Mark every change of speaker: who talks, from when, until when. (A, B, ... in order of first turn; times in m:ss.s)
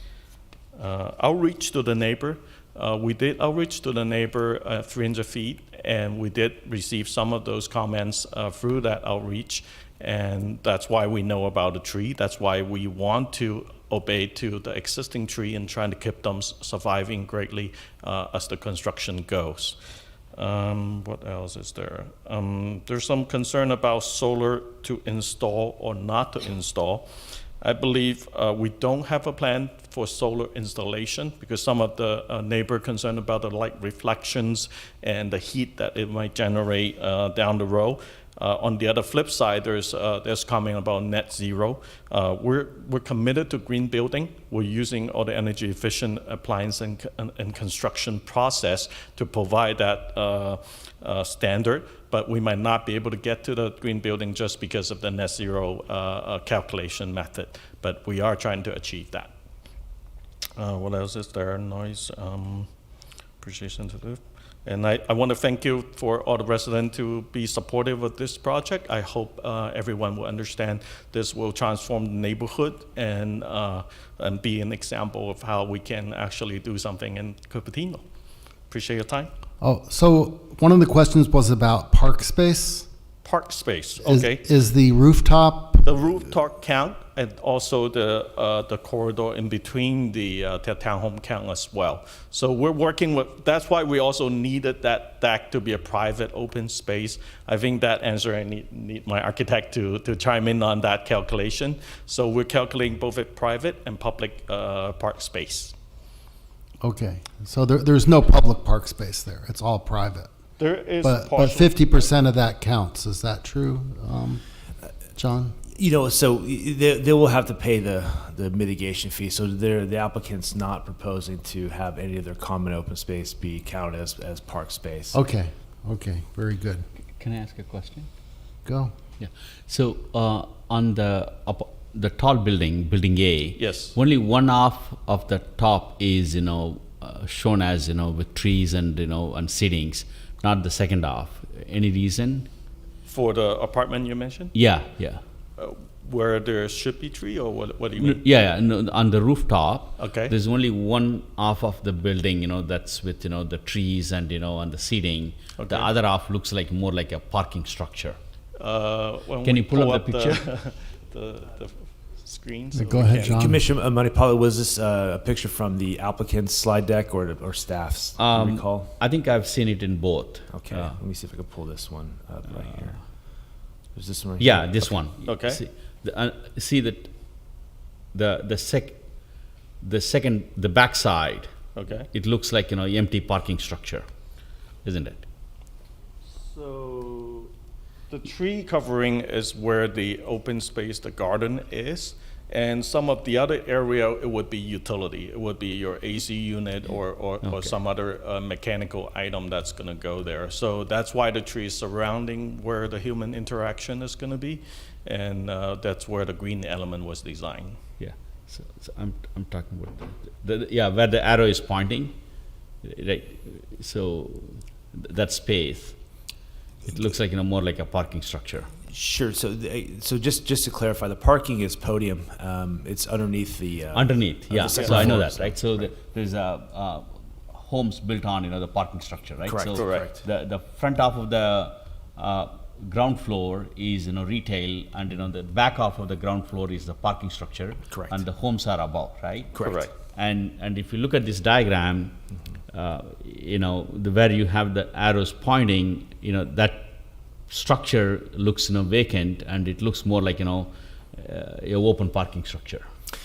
0:00.8-0:19.8 A
0:20.3-0:27.0 A
0:27.6-0:59.3 A
1:00.6-1:02.7 A
1:03.4-1:18.0 A
1:18.7-1:19.3 A
1:19.6-1:22.9 B
1:23.2-1:24.4 A
1:24.0-1:25.8 B
1:25.8-1:45.7 A
1:46.8-1:50.3 B
1:50.6-1:52.1 A
1:51.0-1:54.5 B
1:55.1-1:55.6 B
1:55.7-2:05.2 C
2:05.1-2:06.8 B
2:07.2-2:08.1 D
2:08.6-2:08.9 B
2:09.2-2:22.5 D
2:13.6-2:14.0 A
2:23.0-2:24.5 A
2:24.5-2:25.2 D
2:25.6-2:28.2 A
2:28.0-2:38.2 D
2:30.0-2:30.3 A
2:35.6-2:35.9 A
2:38.6-2:43.3 A
2:39.4-2:40.5 D
2:42.7-2:43.6 B
2:43.2-2:48.9 C
2:48.2-2:51.0 D
2:50.5-2:54.8 C
2:54.4-2:57.1 D
2:55.2-2:55.6 A
2:58.1-2:59.0 D
2:59.8-3:01.5 D
3:01.8-3:02.1 A
3:02.1-3:04.0 D
3:04.8-3:05.2 D
3:06.4-3:07.5 A
3:08.1-3:27.8 A
3:17.4-3:17.7 D
3:28.0-3:32.1 D
3:32.8-3:36.0 D
3:36.8-3:38.7 D
3:38.9-3:45.9 C
3:43.9-4:02.1 D
3:44.6-3:45.1 A
3:49.4-3:50.2 C
3:49.7-3:50.1 A
3:57.9-3:58.2 C
3:59.5-3:59.8 C
3:59.6-3:59.9 A
4:02.7-4:06.9 D
4:07.5-4:12.8 D